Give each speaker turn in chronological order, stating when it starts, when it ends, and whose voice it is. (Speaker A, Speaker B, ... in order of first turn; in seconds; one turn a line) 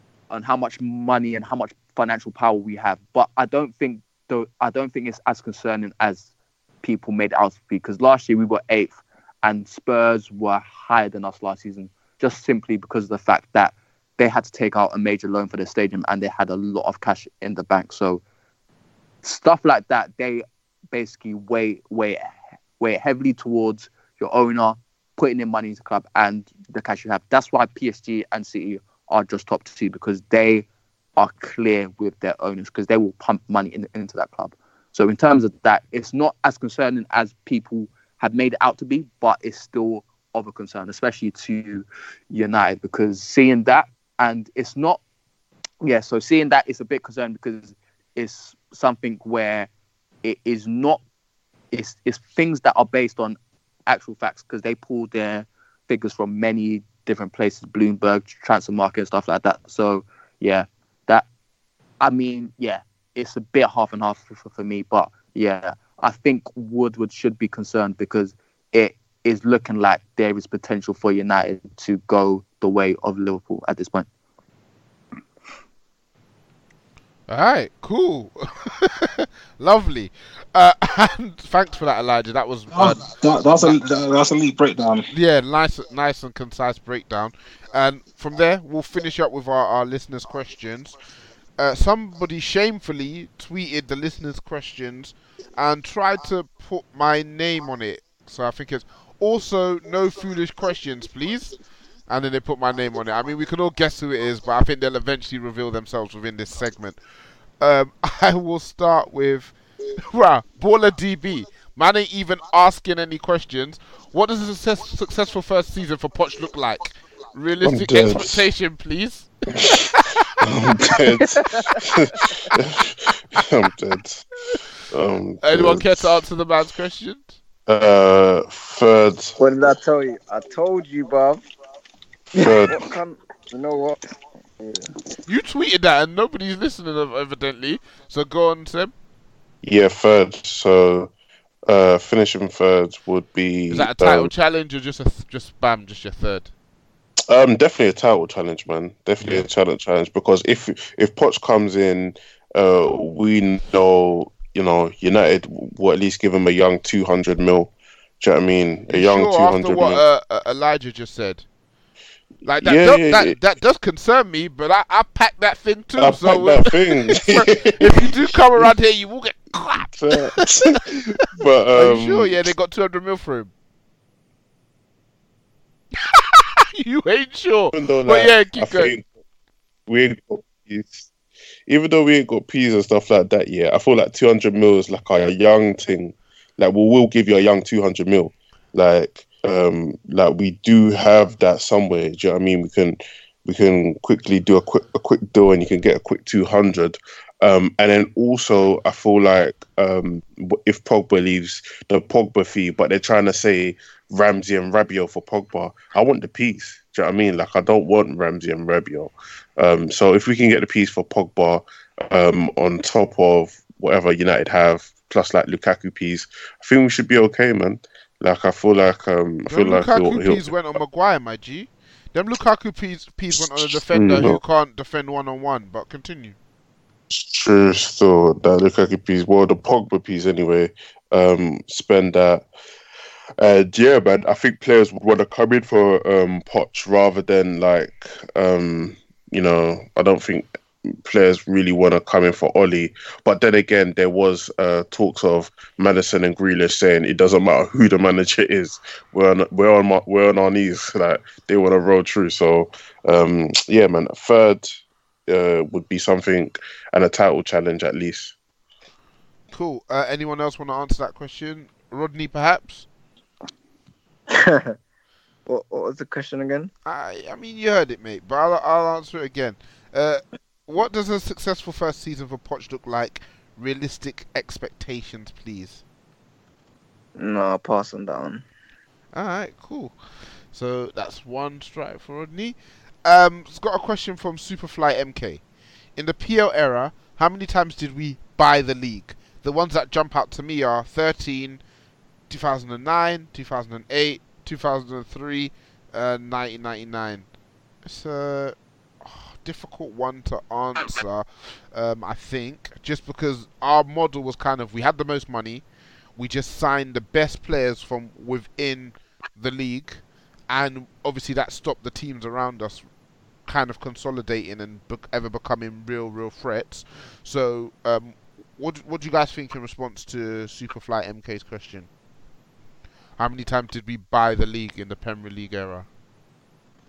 Speaker A: 0.3-6.3
Speaker A: 6.8-18.2
Speaker A: 19.2-30.6
Speaker A: 31.1-45.0
Speaker A: 45.8-49.7
Speaker A: 50.2-51.0
Speaker A: 51.7-61.2
Speaker A: 62.0-74.1
Speaker B: 77.3-83.1
Speaker C: 82.7-85.1
Speaker B: 85.1-90.9
Speaker B: 91.6-101.5
Speaker B: 102.1-107.0
Speaker B: 107.6-109.5
Speaker B: 110.1-120.4
Speaker D: 117.6-118.4
Speaker D: 119.5-119.9
Speaker D: 120.4-124.3
Speaker D: 124.9-126.2
Speaker B: 125.4-127.4
Speaker D: 127.7-129.3
Speaker E: 129.4-131.4
Speaker D: 132.3-132.8
Speaker E: 132.4-134.0
Speaker B: 135.3-138.9
Speaker D: 139.6-141.1
Speaker D: 141.7-144.3
Speaker B: 143.7-146.5
Speaker D: 147.3-160.0
Speaker B: 158.9-161.4
Speaker B: 162.4-170.8
Speaker D: 162.6-163.4
Speaker D: 166.0-168.7
Speaker D: 170.0-170.6
Speaker D: 171.1-172.4
Speaker B: 171.7-173.5
Speaker B: 176.0-178.9
Speaker D: 177.7-179.1
Speaker D: 179.9-181.1
Speaker D: 181.7-220.5
Speaker B: 219.5-226.3
Speaker D: 223.3-224.4
Speaker D: 227.1-232.4
Speaker D: 233.4-258.3
Speaker B: 259.5-262.9
Speaker E: 264.3-264.8
Speaker E: 265.5-266.7
Speaker B: 266.9-275.8
Speaker E: 277.2-278.4
Speaker B: 279.1-279.9
Speaker B: 280.5-285.4
Speaker B: 285.9-291.6
Speaker B: 292.3-297.3
Speaker B: 297.8-305.6
Speaker B: 306.1-312.9
Speaker B: 313.5-321.9
Speaker B: 323.2-325.9